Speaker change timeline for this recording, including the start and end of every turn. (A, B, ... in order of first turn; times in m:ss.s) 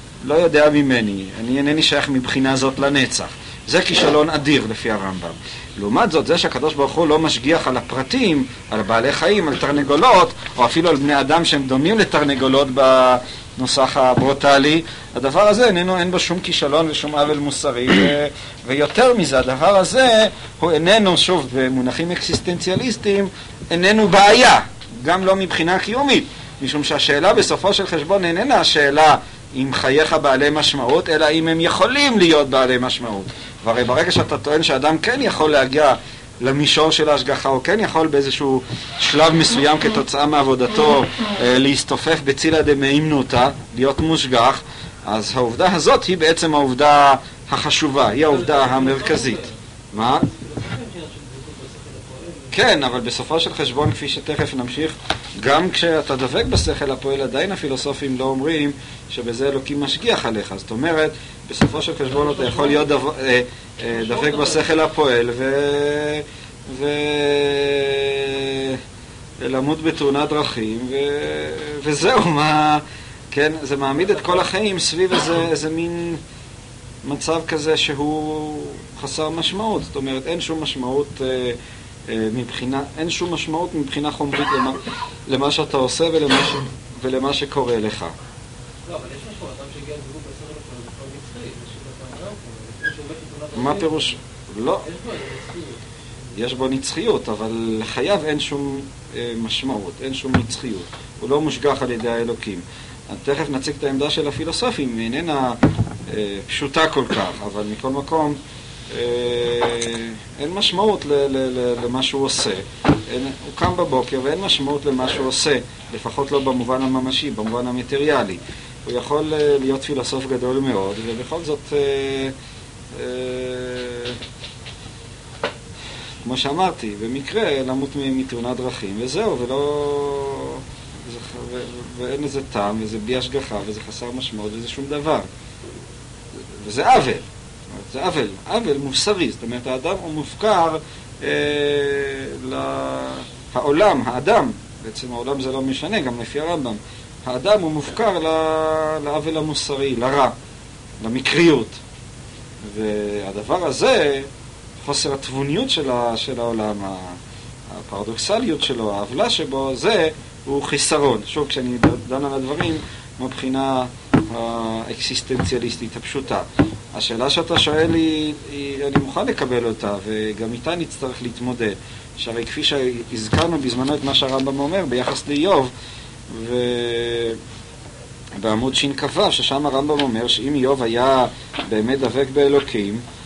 0:00.2-0:50.3 A
0:48.3-0:52.5 B
0:52.5-1:08.8 A
1:02.1-1:02.9 B
1:04.0-1:04.7 B
1:09.4-1:16.2 A
1:14.0-1:14.4 B
1:17.0-1:28.1 A
1:28.9-1:34.2 B
1:33.6-1:34.9 A
1:34.8-1:35.8 B
1:36.4-1:48.4 A
1:48.9-2:02.3 A
2:02.9-2:04.2 A
2:06.2-2:15.3 A
2:16.6-2:30.4 A
2:31.0-2:31.8 A
2:32.6-2:34.3 A
2:34.8-2:37.2 A
2:37.7-2:55.7 A
2:56.3-2:57.4 A
2:58.4-3:03.0 A